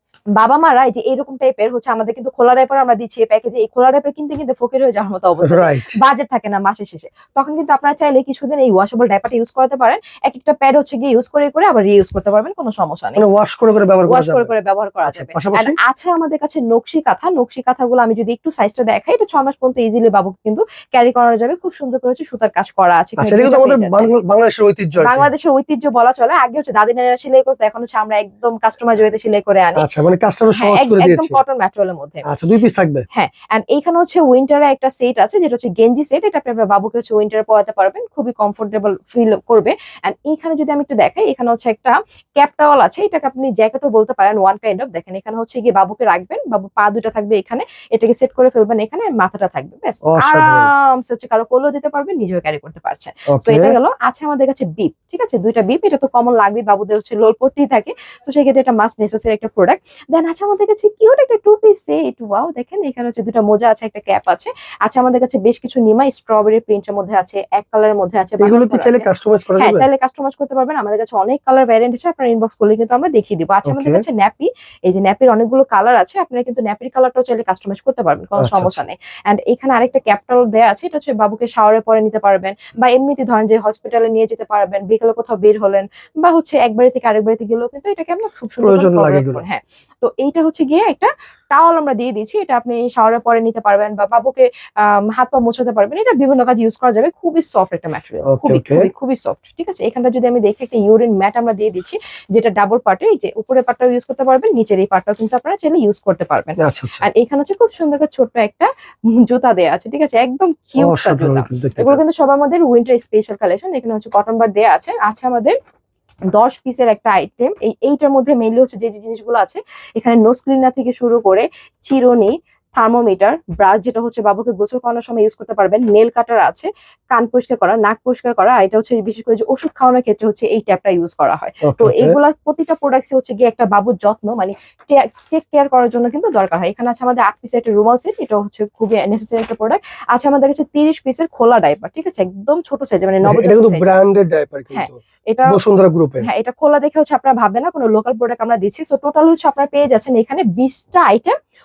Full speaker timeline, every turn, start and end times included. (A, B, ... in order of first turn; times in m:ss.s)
0:00.4-0:13.2 A
0:05.4-0:06.0 B
0:13.2-0:14.5 B
0:14.1-0:24.1 A
0:15.0-0:15.7 B
0:23.2-0:25.3 B
0:25.0-0:29.8 A
0:29.8-0:31.4 B
0:30.6-0:32.2 A
0:32.2-0:33.0 B
0:33.1-1:09.1 A
0:50.0-0:50.7 B
0:53.3-0:53.7 B
1:08.4-1:09.8 B
1:09.6-1:48.7 A
1:13.6-1:14.0 B
1:18.4-1:18.8 B
1:28.6-1:29.4 B
1:38.2-1:38.9 B
1:46.6-1:47.0 B
1:49.2-1:55.6 A
1:50.8-1:52.0 B
1:56.3-2:23.9 A
2:11.6-2:12.2 B
2:23.2-2:25.0 B
2:24.7-2:25.5 A
2:25.5-2:26.3 B
2:26.2-2:31.3 A